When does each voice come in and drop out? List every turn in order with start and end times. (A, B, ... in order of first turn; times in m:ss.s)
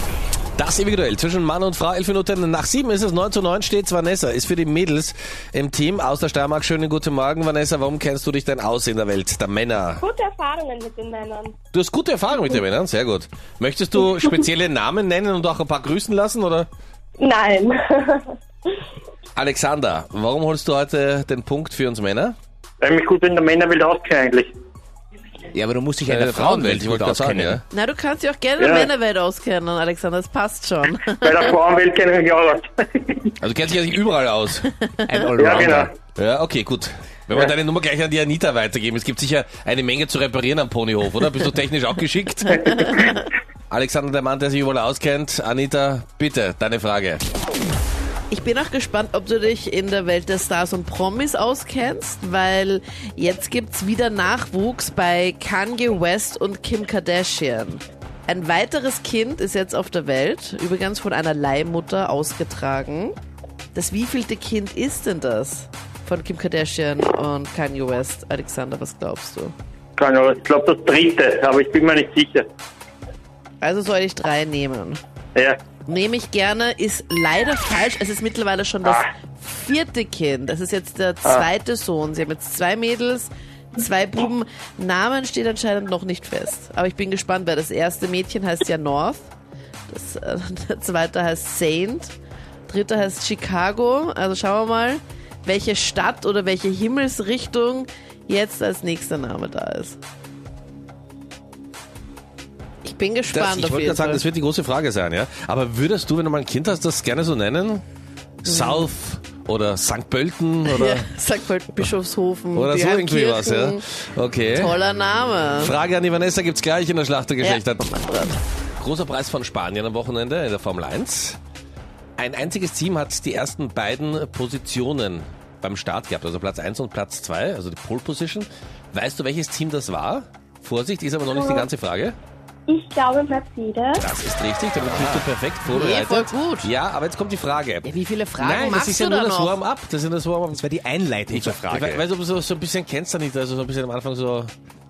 0:00.6-0:10.0 A
0:10.0-0:11.6 B
0:11.7-0:16.7 A
0:17.2-0:18.3 B
0:19.3-0:22.4 A
0:22.8-0:24.5 C
0:25.5-0:27.6 D
0:26.0-0:27.6 A
0:27.7-0:31.5 E
0:28.6-0:28.9 C
0:31.2-0:33.3 C
0:33.4-0:34.7 A
0:35.1-0:35.9 D
0:35.4-0:35.9 C
0:36.1-0:42.6 A
0:42.6-0:43.2 C
0:42.6-0:43.2 E
0:43.7-0:47.2 A
0:48.3-1:03.1 E
1:03.7-1:09.5 E
1:10.0-1:12.5 C
1:13.6-1:15.0 E
1:15.8-1:29.3 E
1:29.9-1:32.1 E
1:32.7-1:40.0 E
1:42.8-1:44.2 E
1:43.3-1:47.8 A
1:48.4-1:48.9 E
1:48.4-1:51.1 A
1:50.6-1:53.8 E
1:52.5-1:54.8 A
1:54.5-1:55.7 E
1:55.6-1:57.8 A
1:57.4-1:58.4 E
1:58.8-2:01.4 A
2:02.2-2:12.2 A
2:11.3-2:11.7 B
2:12.7-2:14.0 B
2:14.0-2:20.6 A
2:15.7-2:16.7 E
2:17.8-2:19.6 E
2:20.5-2:22.0 D
2:21.3-2:24.5 A